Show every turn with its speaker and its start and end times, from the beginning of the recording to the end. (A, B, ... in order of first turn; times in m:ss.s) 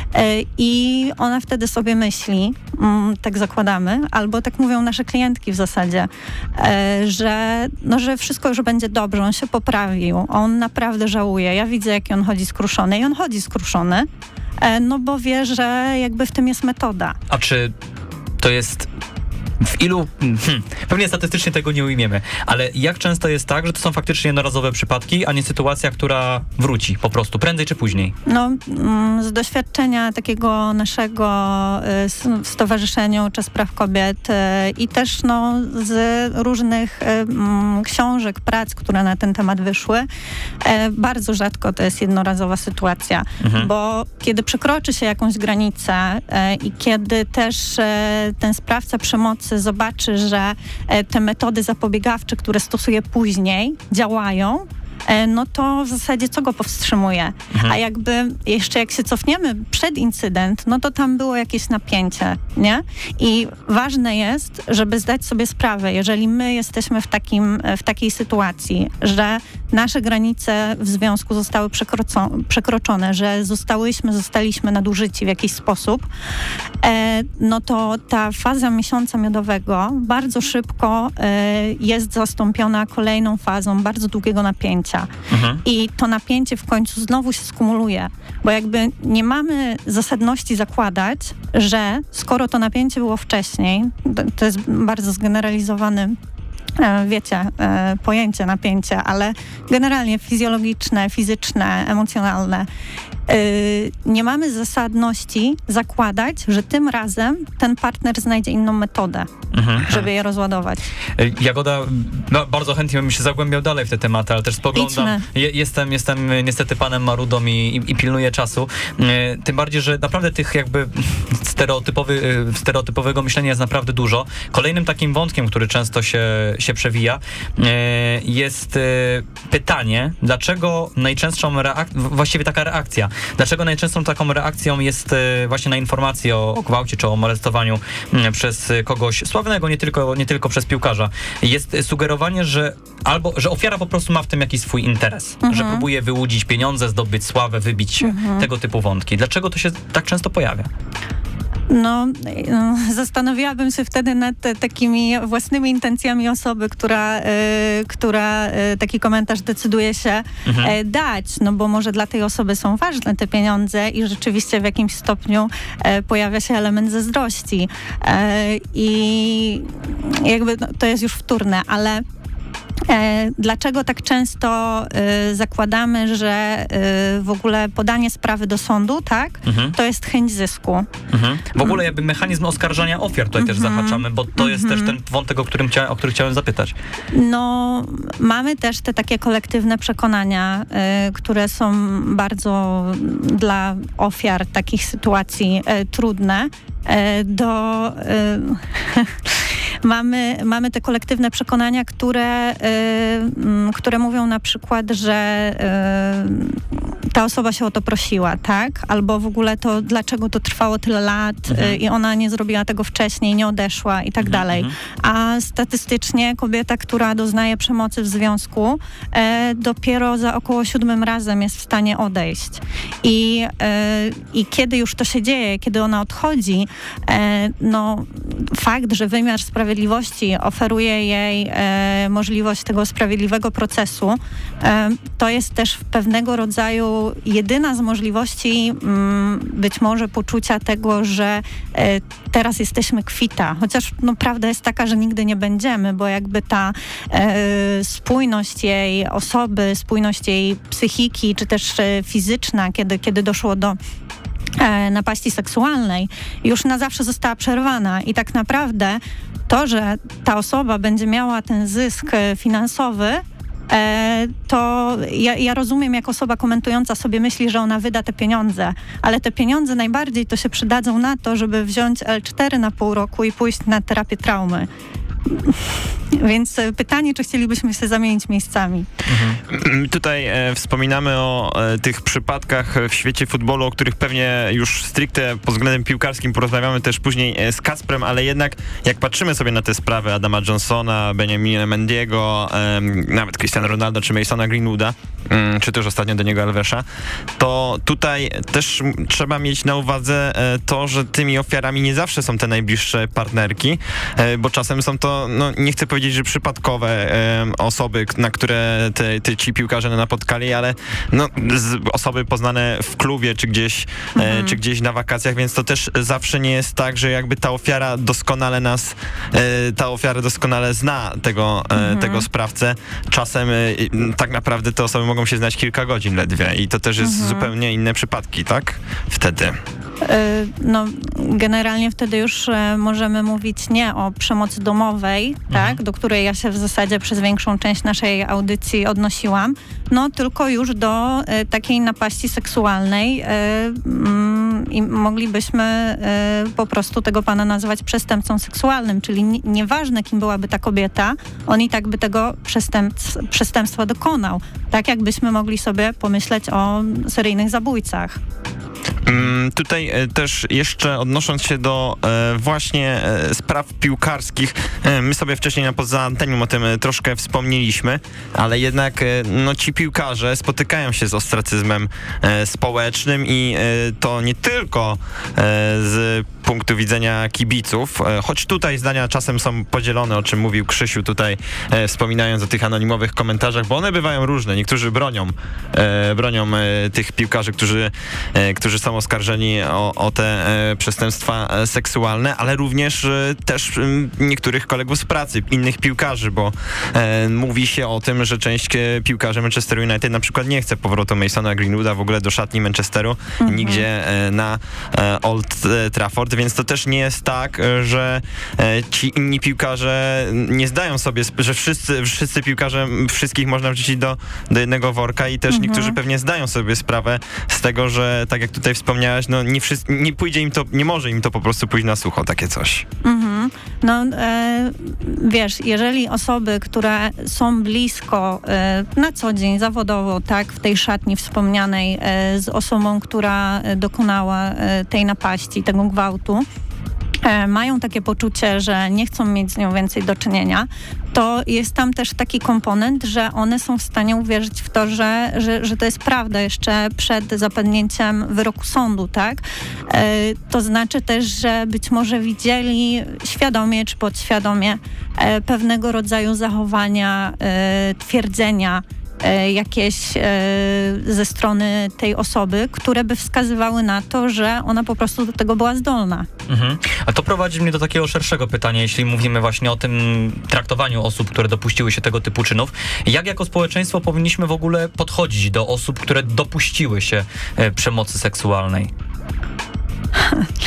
0:00.1-0:14.1 A
0:14.6-0:17.2 A
0:17.3-0:17.7 B
0:18.4-0:18.9 B
0:19.6-0:28.1 B
0:28.3-0:40.0 A
0:40.6-1:16.1 A
0:43.4-0:43.7 B
1:16.8-1:25.1 A
1:25.3-1:25.6 B
1:25.6-1:36.2 A
1:36.8-1:42.7 A
1:43.3-1:49.3 A
1:49.5-1:50.1 B
1:49.8-1:50.8 A
1:51.2-2:30.7 B
1:54.7-1:55.2 A
2:25.4-2:25.8 A
2:28.0-2:28.5 A
2:31.7-2:52.0 A
2:40.4-2:40.7 B
2:52.9-3:00.9 A
2:59.4-2:59.8 B
3:01.1-3:06.7 B
3:03.4-3:05.0 A
3:07.1-3:19.3 A
3:19.8-4:13.8 A
3:31.5-3:31.8 B
3:34.2-3:34.7 B
4:14.6-4:34.7 A
4:35.3-4:35.6 A
4:36.1-4:38.9 A
4:39.1-4:39.4 B
4:39.5-4:56.8 C
4:57.4-5:29.6 C
5:14.2-5:14.6 A
5:21.7-5:22.2 A
5:27.0-5:27.5 A
5:30.0-5:58.2 A
5:35.5-5:35.8 B
5:59.0-7:02.8 C
6:43.4-6:43.8 A
6:55.5-6:56.0 A
7:03.0-7:16.4 A
7:17.2-7:46.3 A
7:46.5-7:58.9 B
8:00.2-8:00.5 A